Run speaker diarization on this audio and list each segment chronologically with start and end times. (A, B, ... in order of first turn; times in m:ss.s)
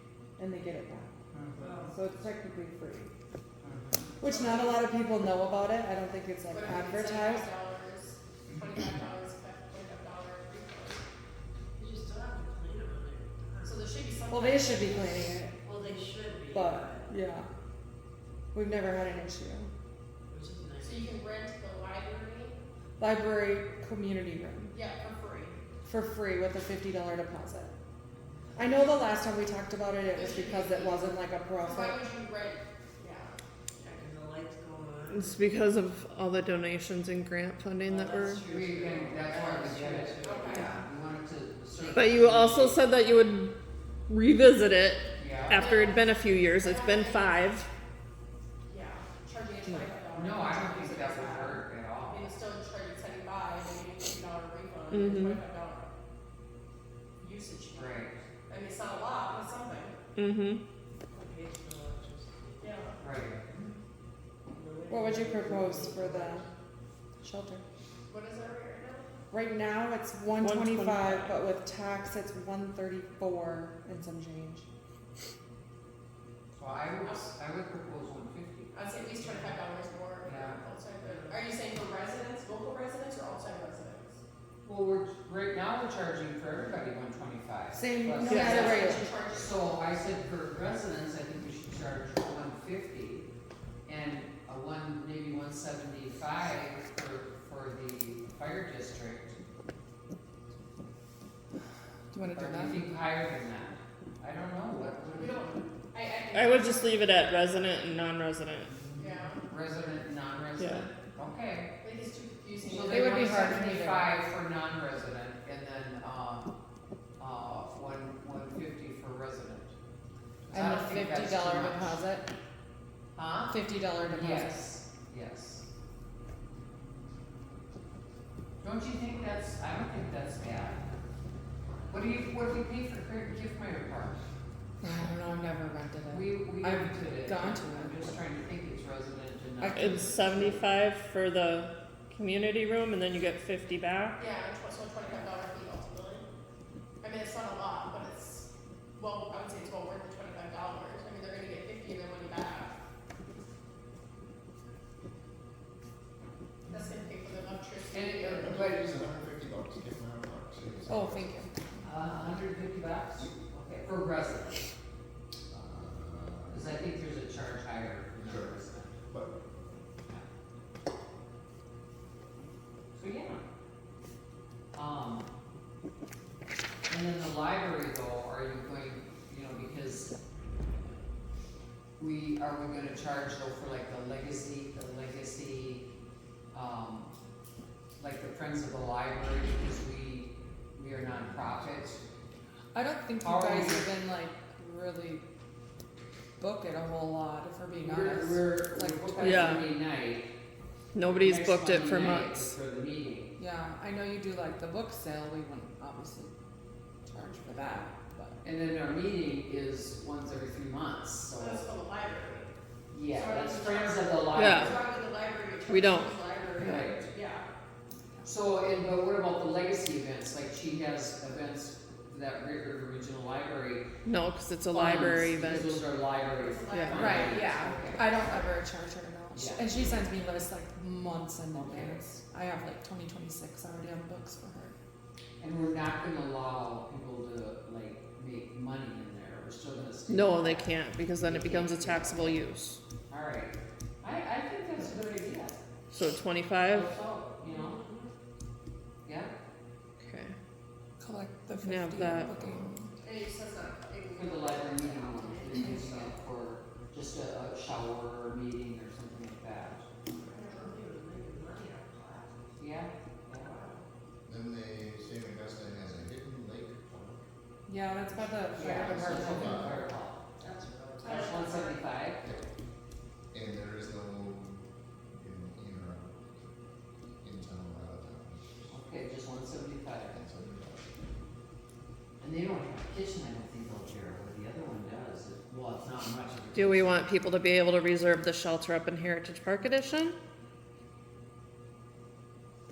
0:00.4-0:01.1 A
0:01.3-0:01.7 B
0:01.6-0:01.9 C
0:01.9-0:03.1 A
0:03.6-0:04.1 B
0:04.2-0:07.5 A
0:04.2-0:04.9 D
0:06.5-0:11.0 D
0:11.8-0:14.0 C
0:13.6-0:15.3 D
0:14.3-0:15.5 A
0:15.6-0:17.2 C
0:16.5-0:17.5 A
0:18.5-0:19.7 A
0:20.3-0:21.2 C
0:20.8-0:22.6 D
0:23.0-0:24.7 A
0:24.7-0:25.6 D
0:25.8-0:27.7 A
0:28.5-0:32.0 A
0:30.1-0:33.4 D
0:33.8-0:35.4 C
0:35.1-0:38.4 E
0:37.8-0:40.7 C
0:38.4-0:42.8 B
0:40.2-0:40.7 D
0:41.9-0:43.5 E
0:44.1-0:47.7 E
0:45.2-0:45.7 B
0:45.5-0:47.5 D
0:48.7-0:55.9 D
0:50.1-0:52.2 B
0:54.9-0:55.4 E
0:57.2-1:00.0 D
0:57.7-0:58.2 B
1:00.2-1:00.6 E
1:01.1-1:02.8 C
1:02.6-1:03.0 D
1:03.0-1:03.7 B
1:04.5-1:06.5 C
1:04.9-1:06.5 A
1:07.2-1:07.6 A
1:08.1-1:09.2 D
1:09.3-1:14.7 A
1:10.4-1:11.4 E
1:16.5-1:19.6 B
1:18.7-1:24.2 D
1:20.2-1:20.6 B
1:21.1-1:21.4 C
1:24.6-1:33.2 B
1:27.7-1:29.0 A
1:28.2-1:29.6 D
1:28.3-1:28.6 E
1:33.8-1:39.4 B
1:42.1-1:42.9 A
1:42.3-1:45.5 B
1:45.1-1:47.2 D
1:46.3-1:48.7 E
1:48.7-1:51.7 B
1:48.9-1:49.4 D
1:50.6-1:50.9 E
1:51.8-1:53.6 D
1:52.6-1:56.5 B
1:52.7-1:54.2 A
1:57.2-1:59.7 B
2:00.4-2:02.0 B
2:00.5-2:02.3 A
2:03.1-2:05.6 B
2:03.5-2:04.7 A
2:08.6-2:10.8 B
2:11.9-2:14.2 B
2:14.8-2:17.9 A
2:16.1-2:20.6 B
2:19.6-2:20.0 A
2:19.7-2:24.2 E
2:24.2-2:26.3 D
2:27.0-2:32.7 D
2:36.7-2:39.0 D
2:37.9-2:39.0 B
2:38.4-2:41.3 F
2:40.9-2:41.9 A
2:41.8-2:44.6 B
2:45.5-2:46.7 F
2:46.5-2:48.9 B
2:48.2-2:48.5 F
2:49.1-2:49.4 F
2:52.9-2:53.4 B
2:54.7-2:55.3 B
2:56.9-3:00.2 B
3:02.0-3:05.9 B
3:06.5-3:07.1 B
3:08.0-3:12.0 B
3:11.1-3:11.6 F
3:12.7-3:15.2 A
3:13.2-3:13.9 B
3:16.4-3:19.6 A
3:17.8-3:20.3 B
3:19.2-3:19.7 E
3:20.9-3:22.5 E
3:21.0-3:23.3 B
3:23.4-3:26.3 A
3:27.0-3:28.4 A
3:28.4-3:31.6 B
3:31.4-3:32.5 D
3:32.9-3:34.8 B
3:33.1-3:37.5 D
3:34.3-3:34.8 E
3:35.7-3:36.9 E
3:36.6-3:37.1 B
3:38.2-3:43.9 B
3:44.0-3:45.9 E
3:44.7-3:48.4 B
3:46.4-3:48.4 D
3:46.7-3:47.1 E
3:46.9-3:54.7 A
3:49.3-3:50.0 B
3:51.5-3:52.0 B
3:55.4-4:02.5 B
4:00.1-4:02.8 E
4:03.1-4:05.6 B
4:05.9-4:06.9 E
4:06.6-4:07.8 B
4:07.4-4:08.1 C
4:09.0-4:09.3 B
4:10.0-4:10.3 E
4:11.0-4:12.9 A
4:11.6-4:12.3 E
4:13.0-4:14.3 D
4:14.1-4:19.9 B
4:14.2-4:16.1 C
4:15.2-4:16.0 D
4:20.2-4:20.6 D
4:20.2-4:22.6 C
4:22.6-4:23.6 B
4:23.3-4:23.8 C
4:24.2-4:27.2 F
4:27.6-4:29.8 A
4:28.3-4:29.9 F
4:28.5-4:30.2 B
4:30.4-4:31.7 C
4:31.0-4:31.8 D
4:31.0-4:32.2 B
4:33.3-4:36.5 F
4:37.2-4:38.7 F
4:38.7-4:40.2 B
4:40.1-4:40.9 F
4:42.2-4:47.1 B
4:46.5-4:50.2 E